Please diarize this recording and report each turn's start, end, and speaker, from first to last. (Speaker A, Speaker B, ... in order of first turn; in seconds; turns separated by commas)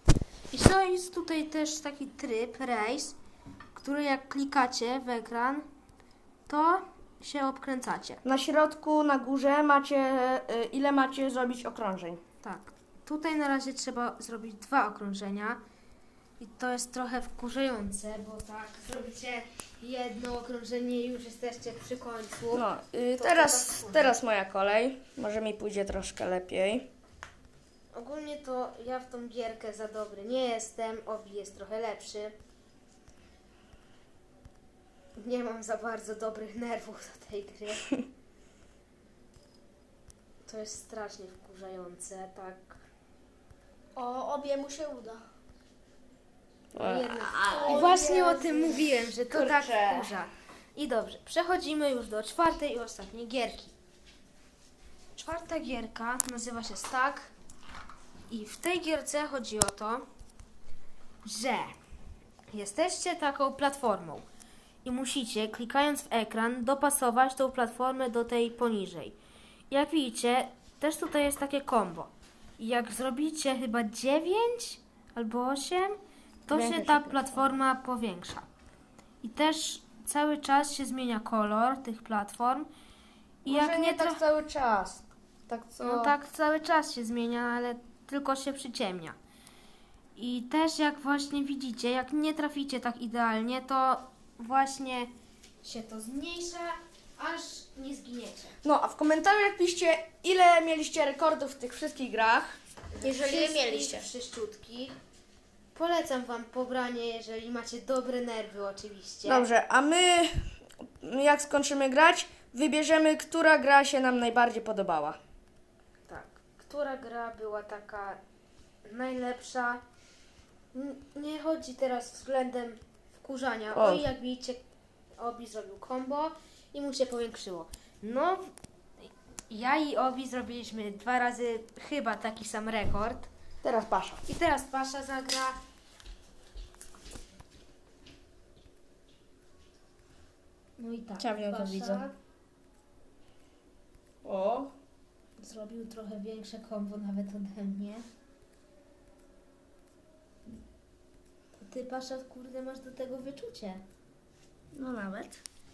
Speaker A: 0.5-3.2, Speaker A: 3.7-5.7, Speaker A: 6.5-8.2, Speaker B: 8.2-12.2, Speaker A: 12.4-15.6, Speaker A: 16.4-24.1, Speaker B: 22.5-26.9, Speaker A: 27.9-32.3, Speaker A: 35.1-37.9, Speaker A: 40.5-42.8, Speaker C: 44.0-45.2, Speaker B: 46.7-48.8, Speaker A: 46.8-53.7, Speaker C: 47.4-48.7, Speaker B: 49.3-50.1, Speaker A: 55.1-57.3, Speaker A: 58.3-60.0, Speaker A: 61.2-61.7, Speaker A: 62.5-64.2, Speaker A: 64.8-69.2, Speaker A: 69.7-78.5, Speaker B: 76.5-77.5, Speaker A: 79.2-82.7, Speaker A: 83.4-84.2, Speaker B: 83.4-86.1, Speaker A: 85.8-89.2, Speaker A: 90.2-95.1, Speaker A: 95.6-98.5, Speaker B: 98.6-102.6, Speaker A: 102.9-105.0, Speaker C: 103.0-104.0, Speaker A: 105.7-109.5, Speaker B: 109.2-110.4, Speaker B: 111.0-115.2, Speaker A: 116.1-118.2, Speaker A: 118.8-119.8, Speaker A: 120.7-124.6, Speaker B: 123.7-124.0, Speaker A: 125.2-128.5, Speaker A: 129.5-133.3, Speaker B: 133.6-134.2, Speaker A: 134.2-135.6, Speaker A: 140.8-142.1, Speaker B: 141.2-142.1, Speaker B: 144.2-144.7, Speaker A: 145.4-148.0, Speaker A: 151.6-153.8, Speaker B: 154.7-155.4